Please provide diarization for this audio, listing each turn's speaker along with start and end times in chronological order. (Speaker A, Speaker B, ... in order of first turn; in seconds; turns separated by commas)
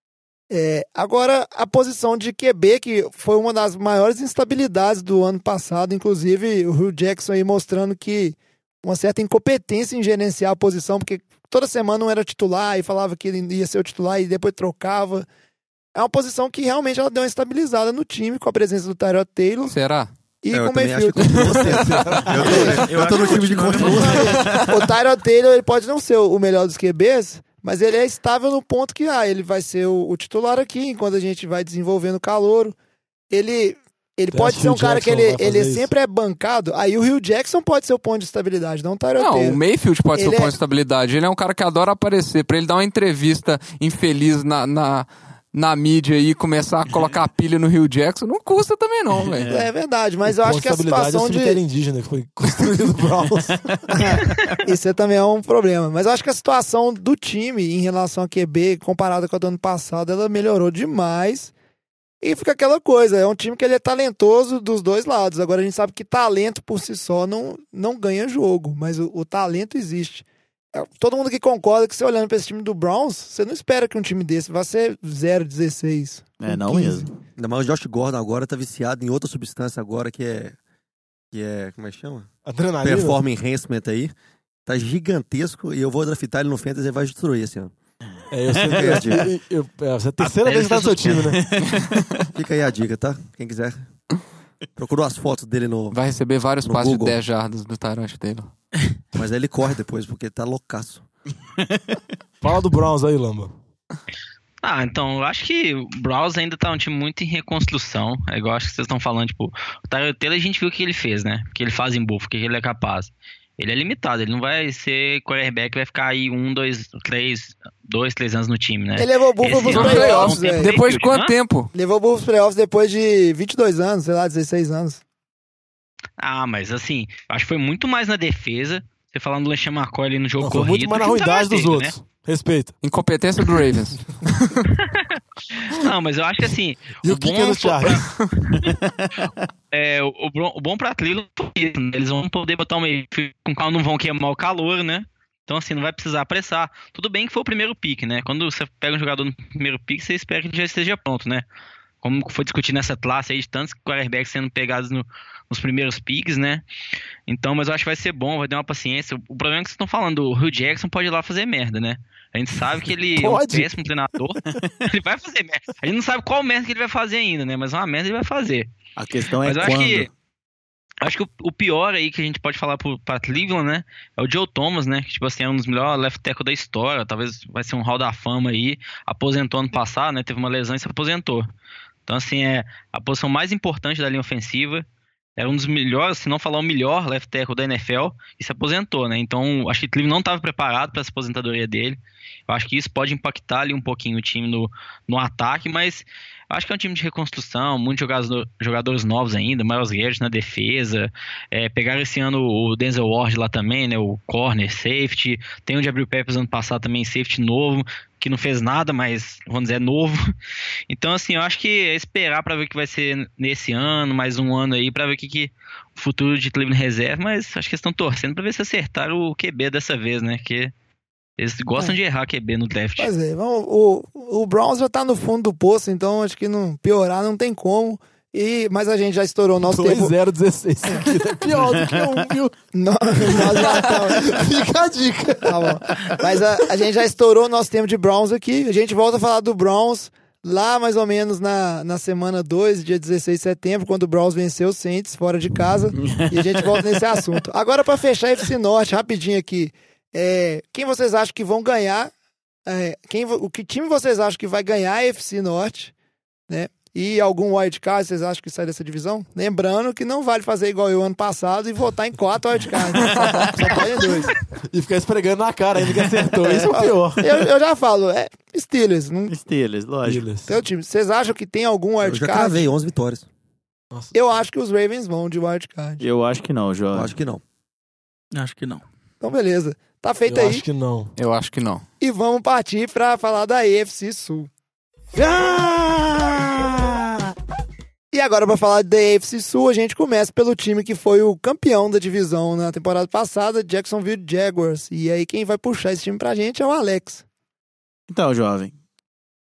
Speaker A: 0.5-15.3, Speaker A: 15.9-19.8, Speaker B: 19.7-20.1, Speaker A: 20.4-22.9, Speaker C: 20.5-24.5, Speaker D: 22.1-23.1, Speaker E: 22.7-24.7, Speaker D: 23.8-24.1, Speaker A: 24.0-32.8, Speaker A: 33.3-39.6, Speaker D: 34.3-35.9, Speaker B: 39.2-49.5, Speaker A: 40.1-40.5, Speaker F: 49.2-49.7, Speaker A: 49.5-51.6, Speaker D: 50.3-53.8, Speaker A: 53.9-61.5, Speaker A: 62.2-77.1, Speaker F: 76.4-77.2, Speaker C: 77.3-80.6, Speaker C: 81.3-82.3, Speaker D: 82.5-83.2, Speaker C: 82.8-84.1, Speaker C: 84.7-87.7, Speaker D: 88.3-91.4, Speaker F: 88.7-89.0, Speaker C: 88.7-89.3, Speaker F: 90.2-92.2, Speaker C: 92.3-93.8, Speaker C: 94.8-96.0, Speaker B: 95.9-98.5, Speaker C: 96.6-97.2, Speaker C: 99.2-101.0, Speaker D: 102.4-103.5, Speaker G: 104.6-121.3, Speaker A: 119.0-120.7, Speaker B: 119.6-121.7, Speaker A: 121.7-125.0, Speaker G: 126.2-131.9, Speaker D: 130.4-132.8, Speaker B: 132.8-134.7, Speaker G: 135.5-138.1, Speaker D: 137.0-138.1, Speaker G: 139.7-151.4, Speaker G: 152.0-156.6, Speaker G: 157.3-168.7, Speaker D: 163.1-163.7, Speaker F: 169.0-170.1, Speaker G: 169.4-170.1, Speaker G: 171.0-181.5, Speaker G: 182.1-184.9, Speaker G: 185.4-210.2, Speaker G: 210.9-220.7, Speaker G: 221.4-223.1, Speaker A: 223.0-230.2, Speaker D: 229.6-232.5, Speaker F: 231.6-232.1, Speaker A: 232.7-234.4, Speaker D: 233.2-236.0, Speaker A: 235.4-252.1, Speaker A: 252.7-255.9, Speaker A: 256.5-264.4, Speaker F: 263.2-263.5, Speaker D: 264.7-267.3, Speaker A: 266.4-269.3, Speaker F: 269.3-270.3, Speaker D: 270.0-270.6, Speaker A: 270.4-272.7, Speaker C: 272.0-273.3, Speaker A: 274.1-276.0, Speaker F: 276.0-277.1, Speaker C: 276.9-277.4, Speaker E: 278.3-278.8, Speaker A: 279.2-280.6, Speaker D: 280.3-281.1, Speaker B: 281.2-281.8, Speaker A: 282.0-284.5, Speaker F: 285.1-287.3, Speaker A: 288.1-297.2, Speaker F: 298.1-298.8